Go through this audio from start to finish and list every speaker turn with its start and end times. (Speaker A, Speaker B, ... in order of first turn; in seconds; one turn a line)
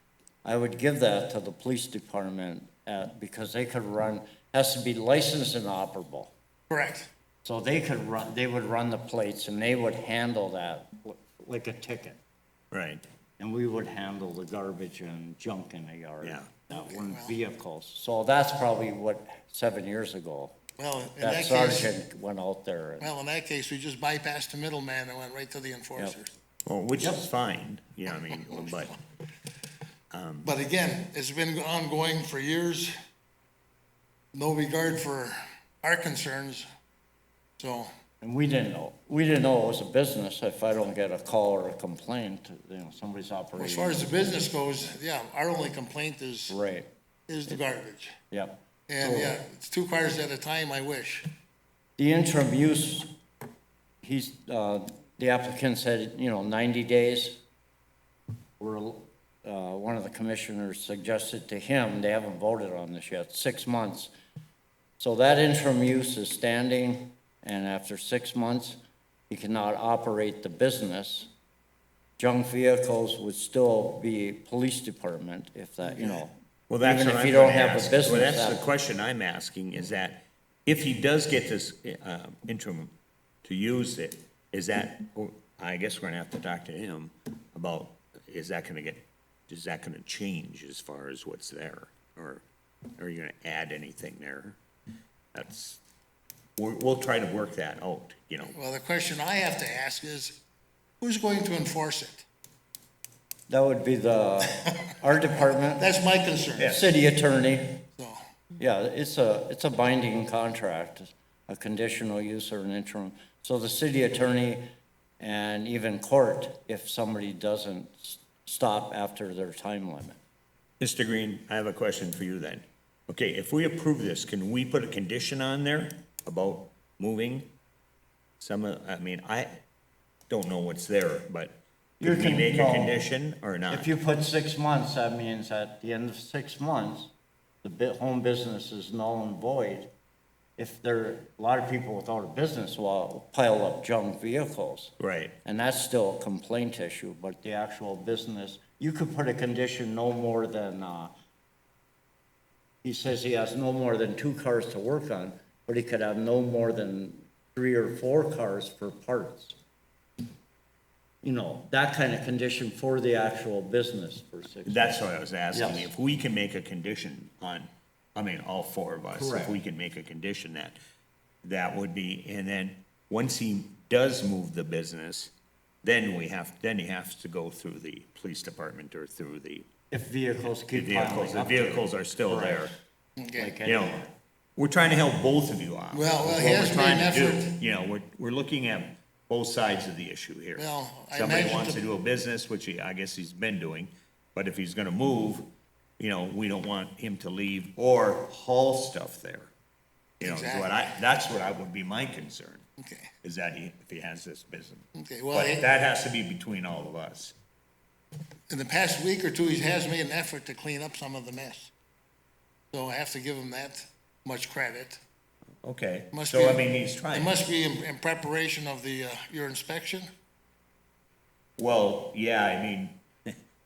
Speaker A: 0.4-6.3
Speaker B: 6.7-7.1
Speaker A: 7.4-12.2
Speaker C: 12.7-13.0
Speaker A: 13.4-20.6
Speaker C: 16.2-16.5
Speaker B: 16.8-17.4
Speaker B: 20.8-21.9
Speaker A: 21.2-23.1
Speaker B: 23.0-26.3
Speaker C: 26.6-28.9
Speaker A: 27.0-27.2
Speaker C: 30.1-30.5
Speaker B: 30.4-32.9
Speaker B: 34.3-36.7
Speaker B: 37.6-37.9
Speaker A: 38.2-44.4
Speaker B: 43.5-46.6
Speaker A: 46.5-46.9
Speaker B: 47.3-48.2
Speaker A: 48.3-49.4
Speaker B: 48.9-51.3
Speaker A: 52.0-53.1
Speaker A: 54.0-57.4
Speaker A: 58.6-64.1
Speaker A: 65.0-71.3
Speaker A: 72.2-78.6
Speaker C: 76.7-92.5
Speaker C: 93.0-94.6
Speaker C: 95.3-95.8
Speaker C: 96.6-98.5
Speaker B: 98.5-100.4
Speaker B: 101.0-102.2
Speaker A: 103.5-105.9
Speaker B: 105.8-106.8
Speaker C: 106.6-106.8
Speaker A: 106.6-107.8
Speaker A: 108.6-114.7
Speaker A: 115.2-120.2
Speaker C: 120.8-127.5
Speaker C: 128.4-129.6
Speaker C: 130.3-133.9
Speaker A: 132.0-133.1
Speaker A: 133.7-137.1
Speaker A: 137.6-139.9
Speaker A: 140.6-151.1
Speaker C: 145.0-145.4
Speaker A: 152.8-159.6
Speaker A: 161.2-165.0
Speaker C: 164.7-170.8
Speaker A: 165.5-165.9
Speaker A: 169.2-169.6
Speaker C: 171.4-175.3
Speaker C: 175.8-179.7
Speaker A: 179.9-182.7
Speaker C: 180.7-182.7
Speaker B: 183.2-183.5
Speaker A: 183.3-184.1
Speaker C: 183.6-184.0
Speaker C: 184.6-199.5
Speaker B: 185.9-187.6
Speaker B: 190.6-191.8
Speaker B: 200.2-200.8
Speaker C: 200.2-202.7
Speaker B: 202.8-203.1
Speaker C: 203.2-207.3
Speaker B: 205.0-205.7
Speaker B: 208.5-211.7
Speaker B: 212.7-215.0
Speaker C: 215.6-217.4
Speaker B: 216.1-220.1
Speaker C: 221.6-223.4